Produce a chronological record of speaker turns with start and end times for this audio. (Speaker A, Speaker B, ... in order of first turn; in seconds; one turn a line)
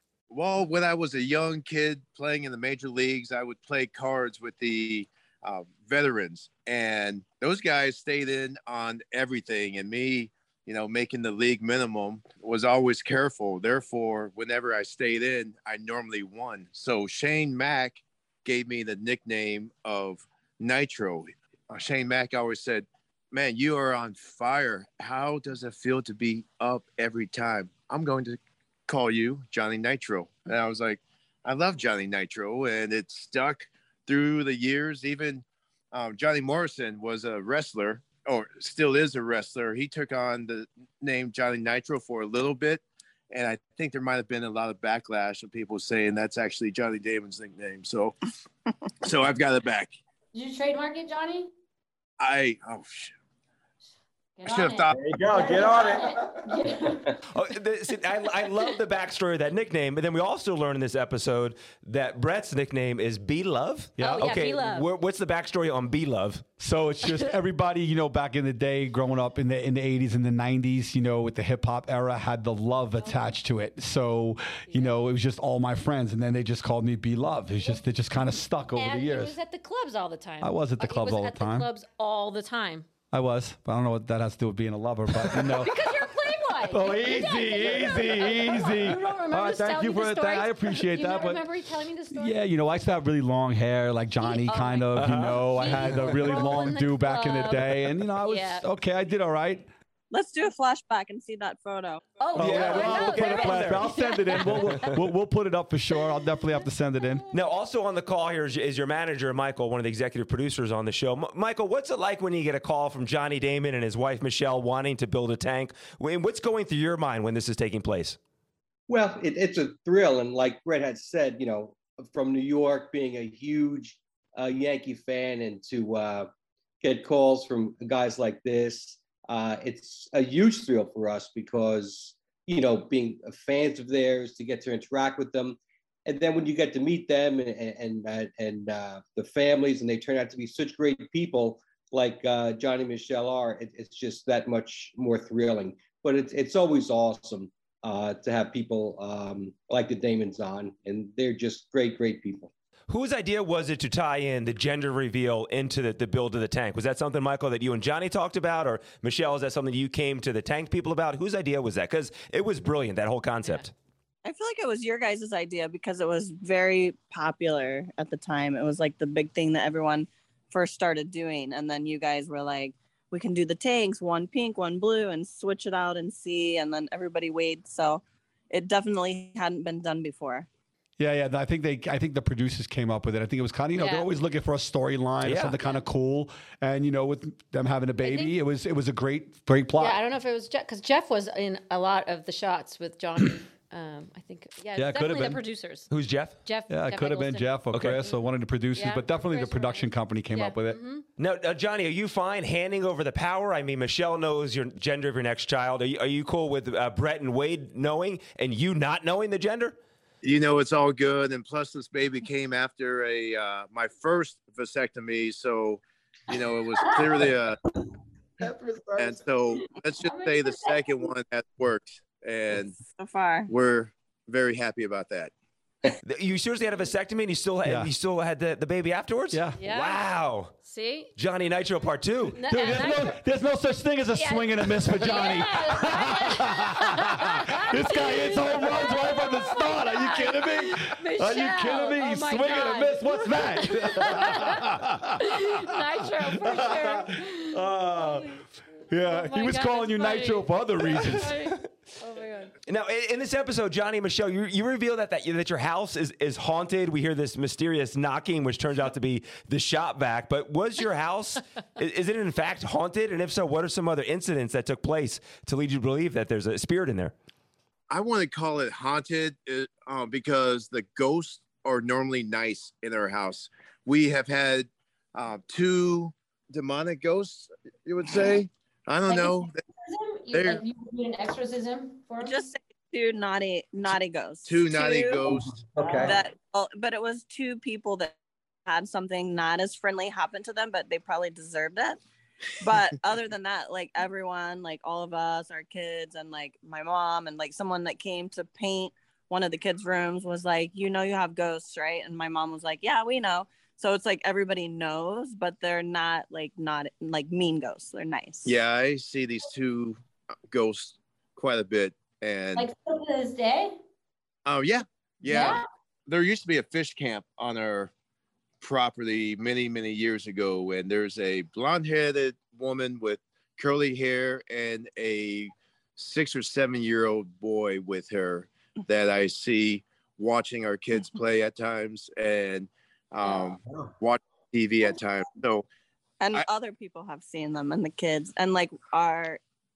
Speaker A: 0.3-48.2
Speaker A: 49.0-49.9
Speaker B: 50.3-51.5
Speaker A: 52.2-53.1
Speaker B: 54.4-57.2
Speaker A: 54.5-55.1
Speaker C: 55.0-56.2
Speaker D: 55.3-56.0
Speaker E: 57.3-66.5
Speaker C: 64.0-64.4
Speaker B: 64.0-64.9
Speaker C: 66.6-79.3
Speaker B: 73.0-73.3
Speaker B: 78.8-82.9
Speaker C: 80.4-81.7
Speaker C: 83.1-85.9
Speaker B: 85.2-92.4
Speaker C: 86.7-91.5
Speaker C: 92.1-99.7
Speaker B: 94.2-98.7
Speaker E: 95.0-96.3
Speaker F: 100.1-102.1
Speaker B: 102.2-105.0
Speaker E: 102.3-104.8
Speaker C: 102.3-107.2
Speaker B: 105.9-106.4
Speaker E: 107.3-118.2
Speaker D: 118.9-126.3
Speaker D: 126.8-152.5
Speaker E: 152.9-163.7
Speaker F: 164.2-180.5
Speaker C: 181.0-190.0
Speaker B: 183.8-184.1
Speaker E: 185.2-185.6
Speaker B: 188.0-188.3
Speaker B: 189.8-195.9
Speaker C: 194.8-195.4
Speaker E: 195.9-196.4
Speaker B: 196.4-201.1
Speaker C: 196.7-200.8
Speaker E: 197.7-198.0
Speaker E: 201.2-209.8
Speaker A: 210.2-217.6
Speaker C: 218.4-219.2
Speaker A: 219.0-222.8
Speaker B: 220.0-221.1
Speaker F: 222.8-223.5
Speaker A: 223.5-225.3
Speaker E: 226.0-230.6
Speaker C: 227.6-227.9
Speaker C: 229.3-229.6
Speaker B: 229.6-230.0
Speaker B: 230.6-231.1
Speaker E: 231.2-232.4
Speaker B: 232.4-233.2
Speaker C: 232.5-251.4
Speaker B: 234.1-252.5
Speaker E: 252.7-267.1
Speaker A: 267.9-279.6
Speaker B: 279.1-282.4
Speaker A: 280.3-280.6
Speaker F: 282.2-285.3
Speaker A: 284.4-286.1
Speaker D: 285.8-286.2
Speaker C: 285.8-286.1
Speaker F: 286.0-288.1
Speaker F: 288.7-292.0
Speaker F: 292.6-308.5
Speaker A: 308.4-310.0
Speaker A: 310.5-312.7
Speaker B: 312.6-313.8
Speaker A: 314.5-317.9
Speaker B: 315.3-315.6
Speaker A: 318.6-335.7
Speaker F: 333.2-333.5
Speaker F: 336.2-339.4